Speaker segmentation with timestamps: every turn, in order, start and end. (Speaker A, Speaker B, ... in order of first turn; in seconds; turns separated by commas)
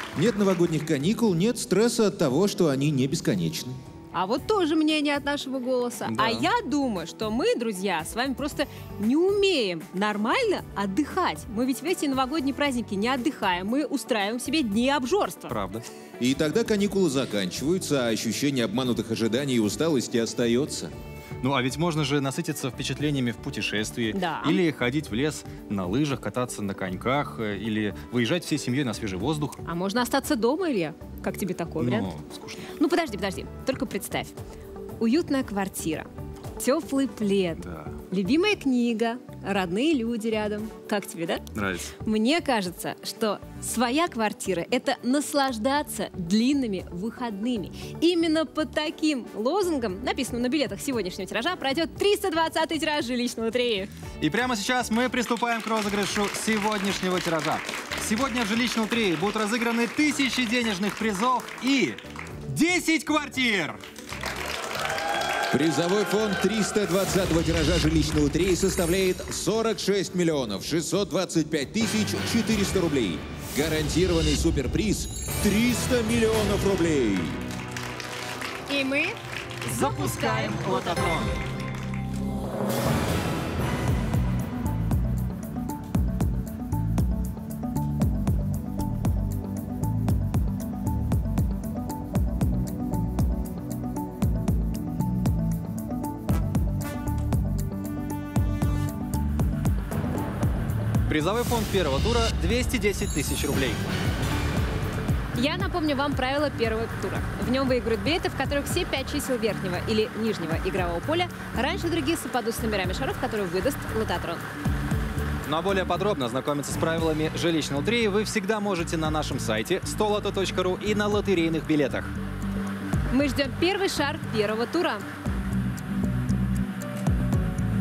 Speaker A: 0.1-3.8, Speaker B: 4.1-15.6, Speaker C: 6.1-6.5, Speaker C: 15.5-15.8, Speaker A: 16.2-20.9, Speaker C: 21.4-29.6, Speaker B: 24.1-24.6, Speaker B: 29.6-32.1, Speaker C: 31.8-32.7, Speaker B: 32.8-34.3, Speaker B: 35.0-41.5, Speaker C: 37.6-38.0, Speaker C: 41.5-41.9, Speaker B: 42.0-53.9, Speaker C: 54.2-63.8, Speaker A: 65.5-77.4, Speaker B: 78.7-81.2, Speaker C: 79.7-81.3, Speaker C: 101.1-103.8, Speaker B: 105.3-114.5, Speaker C: 115.5-122.1, Speaker B: 123.1-125.0